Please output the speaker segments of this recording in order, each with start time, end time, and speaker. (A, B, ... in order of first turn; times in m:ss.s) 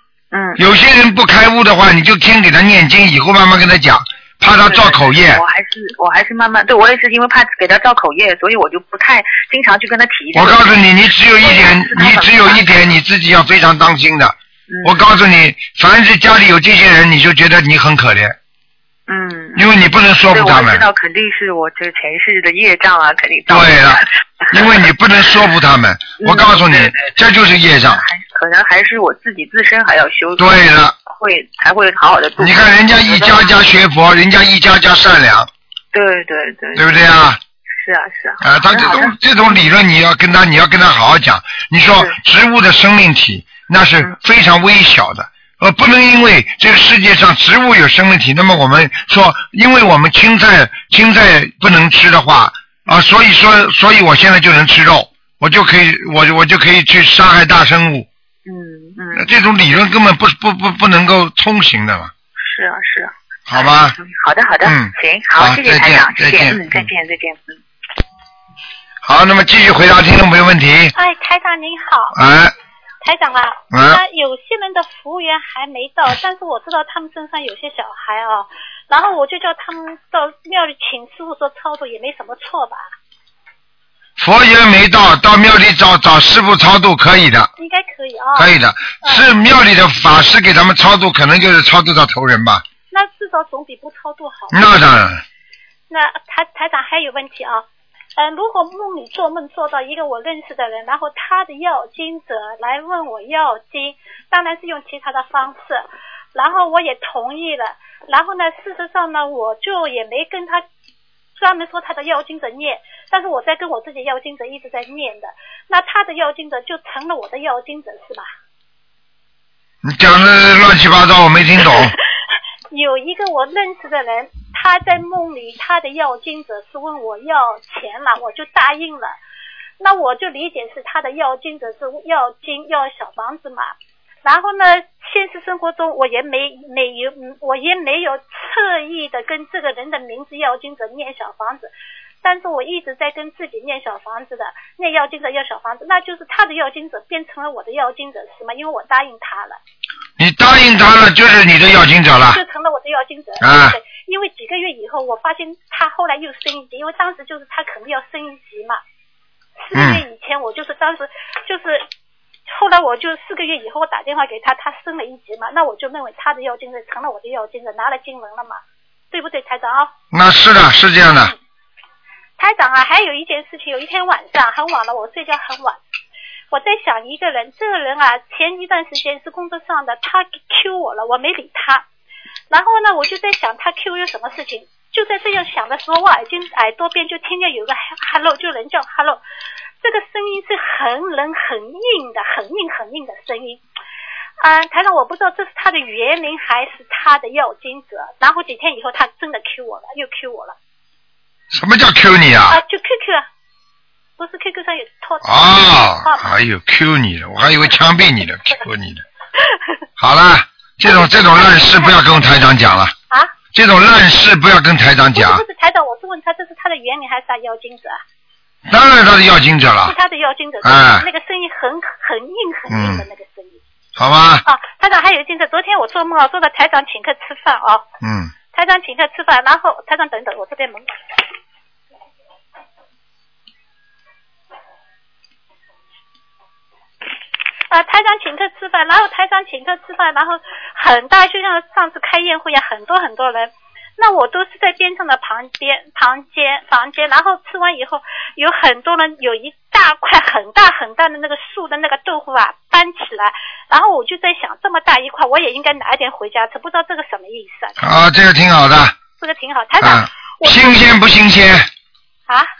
0:00.3-0:00.6 A
0:00.6-0:05.4 B
0:04.6-0:12.8 A
0:10.3-0:18.4 B
0:14.7-0:15.1 A
0:19.1-0:24.8 A
0:19.6-0:20.8 B
0:23.5-0:28.0 B
0:26.2-0:33.6 A
0:30.4-0:31.0 B
0:32.4-0:35.5 B
0:35.9-0:36.9 A
0:36.7-0:37.4 B
0:37.8-0:39.7 A
0:38.4-0:58.1 B
0:58.4-0:59.3 A
0:59.1-1:02.1 B
1:02.4-1:07.6 A
1:03.5-1:04.0 B
1:04.6-1:06.8 B
1:09.0-1:10.9 B
1:11.0-1:12.2 C
1:12.1-1:12.5 B
1:13.0-1:22.9 C
1:13.7-1:14.0 B
1:24.2-1:27.5 B
1:27.6-1:29.3 C
1:28.3-1:32.6 B
1:32.9-1:34.7 C
1:34.5-1:35.2 B
1:35.9-1:50.6 C
1:51.4-1:58.3 C
1:59.8-2:01.9 B
2:02.7-2:09.2 C
2:09.8-2:21.7 C
2:22.2-2:29.6 C
2:30.2-2:32.4 B
2:32.2-2:38.8 C
2:33.4-2:33.8 B
2:39.6-2:41.9 C
2:39.7-2:40.0 B
2:42.5-2:49.9 C
2:50.1-2:51.3 B
2:52.4-2:55.8 C
2:56.5-3:01.8 C
3:02.5-3:09.2 C
3:09.8-3:13.6 C
3:14.4-3:20.6 C
3:21.5-3:22.6 B
3:22.5-3:23.3 C
3:24.2-3:26.3 C
3:25.2-3:29.0 B
3:30.0-3:32.9 B
3:30.8-3:32.2 C
3:33.1-3:33.3 C
3:33.5-3:35.4 B
3:35.1-3:38.0 C
3:38.7-3:39.9 B
3:39.8-3:43.6 C
3:40.6-3:41.0 B
3:42.7-3:43.0 B
3:44.0-3:44.4 B
3:44.4-3:47.9 C
3:48.0-3:48.3 B
3:48.5-3:51.1 C
3:57.7-4:17.8 C
4:17.8-4:18.9 B
4:19.2-4:20.8 C
4:19.8-4:21.7 B